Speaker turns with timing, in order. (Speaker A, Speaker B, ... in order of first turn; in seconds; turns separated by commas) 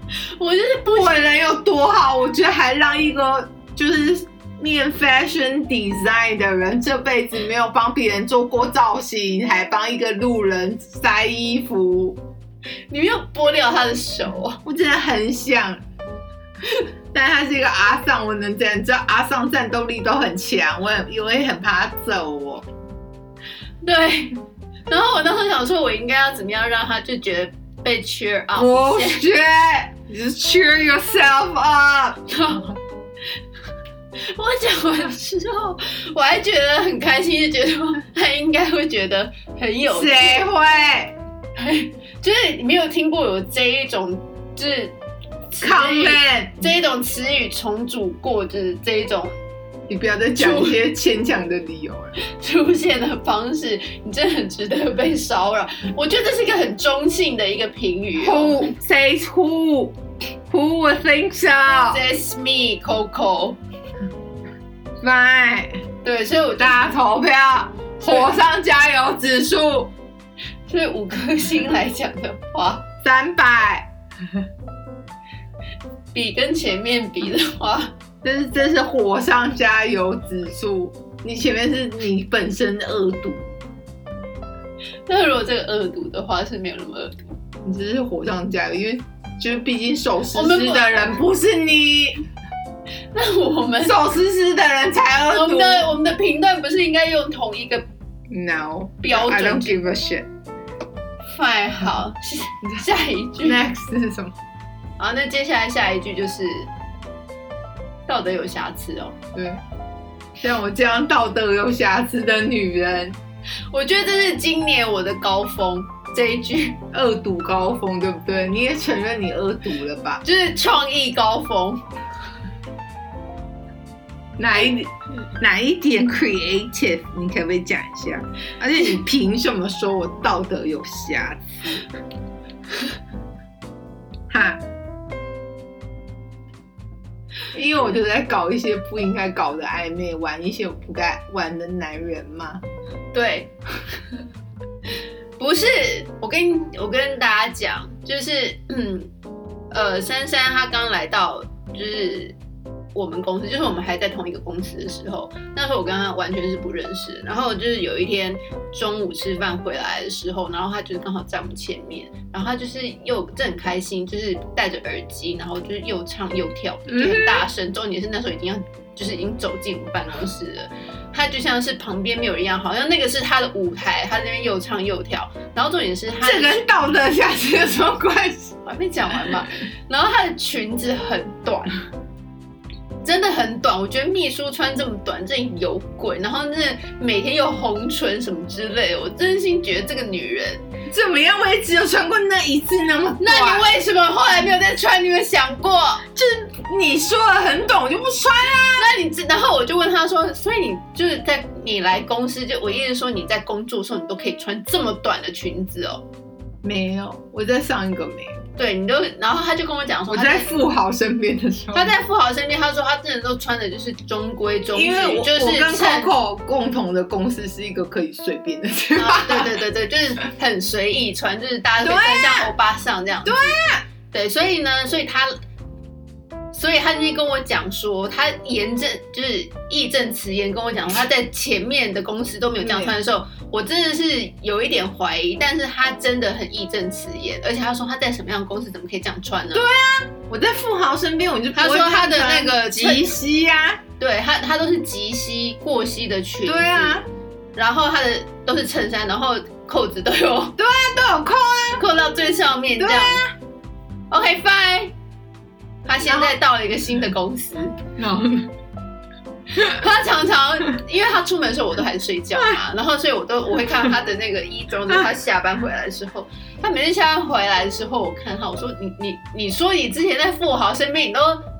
Speaker A: 0.3-1.3, Speaker B: 0.9-12.2, Speaker A: 12.9-14.6, Speaker B: 14.7-15.8, Speaker B: 17.1-22.7, Speaker A: 23.8-24.4, Speaker A: 24.9-29.2, Speaker B: 28.6-32.3, Speaker A: 32.3-32.8, Speaker A: 34.2-40.4, Speaker B: 39.9-41.2, Speaker A: 41.6-45.0, Speaker A: 45.5-49.3, Speaker B: 45.6-46.5, Speaker B: 49.9-52.1, Speaker A: 50.4-50.8, Speaker A: 52.2-58.7, Speaker B: 58.2-60.0, Speaker B: 60.5-62.0, Speaker A: 61.9-63.6, Speaker B: 65.0-65.8, Speaker A: 66.0-66.9, Speaker B: 66.6-69.9, Speaker A: 68.0-68.3, Speaker A: 70.7-72.8, Speaker B: 73.0-73.9, Speaker A: 76.1-77.9, Speaker B: 78.2-83.5, Speaker A: 85.1-87.2, Speaker B: 87.6-92.2, Speaker A: 90.3-91.1, Speaker A: 93.1-94.0, Speaker B: 93.8-95.9, Speaker A: 95.3-97.8, Speaker B: 98.3-100.3, Speaker A: 99.0-99.8, Speaker A: 101.3-103.6, Speaker B: 103.4-104.4, Speaker A: 105.0-106.7, Speaker A: 108.1-109.2, Speaker B: 109.3-109.6, Speaker B: 110.4-113.2, Speaker A: 113.7-116.8, Speaker B: 116.9-120.2, Speaker A: 120.2-121.8, Speaker B: 124.4-131.9, Speaker B: 134.3-134.6, Speaker B: 137.5-142.6, Speaker A: 143.1-143.5, Speaker A: 145.4-149.1, Speaker A: 149.7-152.4, Speaker A: 152.9-176.6, Speaker B: 166.9-167.5, Speaker B: 176.2-178.6, Speaker A: 178.7-181.8, Speaker A: 183.0-190.6, Speaker B: 190.9-193.7, Speaker A: 193.2-196.1, Speaker B: 196.1-198.9, Speaker A: 198.8-206.0, Speaker B: 206.6-208.4, Speaker A: 208.6-210.5, Speaker B: 210.1-211.9, Speaker A: 211.7-216.1, Speaker B: 214.7-219.6, Speaker A: 219.0-223.6, Speaker B: 221.8-222.5, Speaker B: 223.2-223.8, Speaker A: 224.1-225.3, Speaker A: 226.5-239.7, Speaker B: 232.6-232.9, Speaker B: 239.5-243.8, Speaker A: 241.6-243.1, Speaker A: 244.0-247.0, Speaker B: 246.5-247.1, Speaker A: 247.6-250.6, Speaker B: 250.6-251.8, Speaker A: 251.8-253.2, Speaker B: 252.8-253.3, Speaker A: 254.1-254.9, Speaker A: 255.9-257.8, Speaker B: 256.0-256.4, Speaker B: 258.0-258.5, Speaker B: 259.6-259.8, Speaker A: 259.6-271.4, Speaker B: 262.4-262.6